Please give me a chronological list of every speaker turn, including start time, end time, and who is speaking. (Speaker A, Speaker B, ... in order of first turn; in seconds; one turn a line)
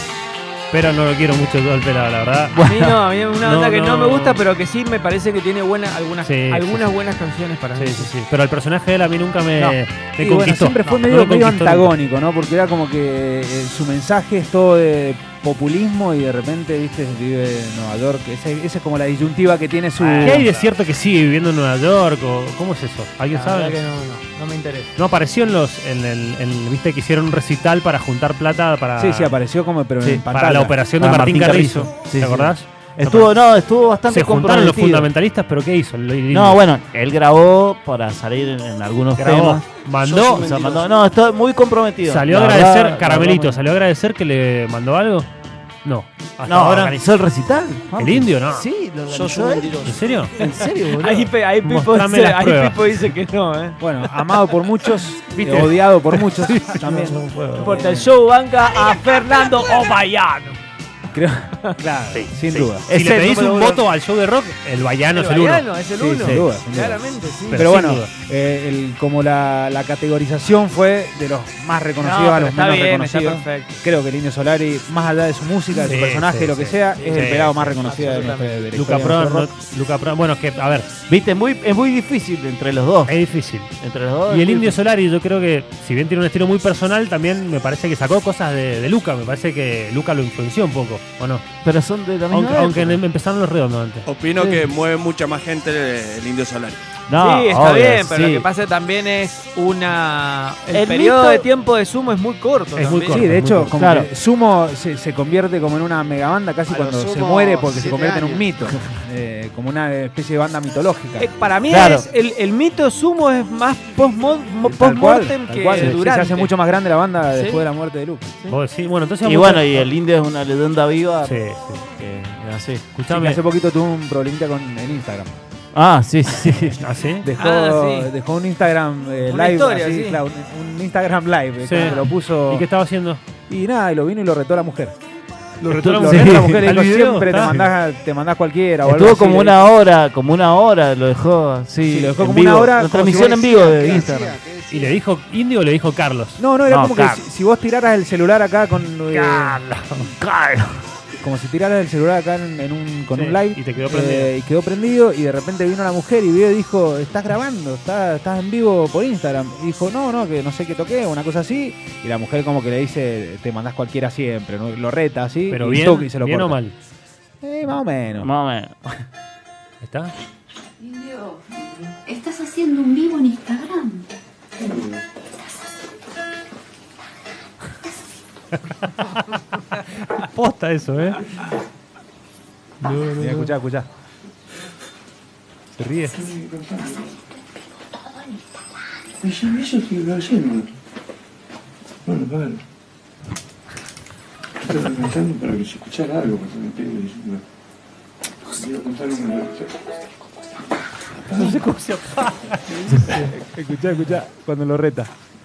Speaker A: 0.7-2.6
Speaker B: 2.6-8.1
Speaker C: 2.6-3.0
Speaker A: 3.4-4.4
Speaker A: 6.2-6.9
Speaker A: 7.8-11.9
Speaker D: 9.6-20.5
Speaker B: 20.0-20.7
Speaker A: 20.2-23.8
Speaker B: 23.3-24.9
Speaker A: 25.0-29.4
Speaker D: 29.0-30.8
Speaker A: 30.3-33.3
Speaker C: 31.0-35.1
Speaker A: 34.1-36.6
Speaker C: 36.3-43.6
Speaker A: 39.2-40.5
Speaker A: 42.0-45.3
Speaker A: 45.8-47.0
Speaker C: 46.5-49.9
Speaker A: 48.0-48.7
Speaker E: 49.3-49.9
Speaker A: 49.8-50.3
Speaker B: 50.4-53.8
Speaker C: 50.4-51.3
Speaker A: 51.6-52.8
Speaker D: 53.8-58.1
Speaker A: 55.4-57.9
Speaker B: 57.3-60.6
Speaker D: 61.1-62.9
Speaker A: 62.1-65.7
Speaker C: 63.3-63.8
Speaker B: 65.1-67.8
Speaker D: 66.0-79.5
Speaker A: 67.5-68.1
Speaker B: 72.0-73.8
Speaker A: 75.8-77.8
Speaker B: 76.9-78.9
Speaker A: 78.7-80.9
Speaker C: 81.1-83.2
Speaker A: 83.1-83.8
Speaker C: 83.8-84.8
Speaker A: 84.3-91.5
Speaker C: 91.6-93.0
Speaker A: 92.3-94.1
Speaker F: 94.1-96.8
Speaker C: 95.0-98.5
Speaker B: 97.2-103.3
Speaker C: 100.7-101.5
Speaker A: 102.8-103.7
Speaker D: 103.1-111.3
Speaker C: 103.8-104.1
Speaker E: 106.7-108.5
Speaker B: 111.2-116.5
Speaker C: 111.7-112.1
Speaker D: 114.6-118.3
Speaker B: 117.3-117.7
Speaker A: 118.5-119.9
Speaker C: 119.2-121.4
Speaker A: 121.2-121.8
Speaker C: 122.0-122.8
Speaker A: 122.9-123.4
Speaker D: 123.1-125.3
Speaker C: 125.7-126.8
Speaker A: 126.8-127.3
Speaker D: 127.2-132.7
Speaker B: 127.4-128.1
Speaker B: 129.3-130.2
Speaker A: 131.6-133.2
Speaker D: 133.5-134.9
Speaker A: 135.6-137.6
Speaker D: 135.6-139.7
Speaker C: 136.1-136.7
Speaker E: 138.8-139.3
Speaker C: 138.9-144.4
Speaker D: 141.9-144.1
Speaker E: 143.5-145.0
Speaker A: 144.7-146.4
Speaker D: 146.4-149.6
Speaker C: 146.7-147.2
Speaker A: 149.1-150.1
Speaker C: 150.2-150.8
Speaker D: 151.2-166.6
Speaker A: 153.1-154.3
Speaker A: 165.5-166.8
Speaker D: 167.4-168.3
Speaker C: 168.2-168.9
Speaker A: 169.8-170.1
Speaker G: 172.1-174.1
Speaker A: 178.6-179.1
Speaker A: 179.8-181.3
Speaker A: 182.8-183.5
Speaker D: 183.2-183.9
Speaker A: 185.8-186.3
Speaker H: 186.2-187.1
Speaker H: 189.2-190.7
Speaker H: 192.1-192.6
Speaker H: 194.6-197.4
Speaker H: 198.6-199.7
Speaker A: 201.3-203.2
Speaker B: 202.9-203.3
Speaker D: 203.1-205.1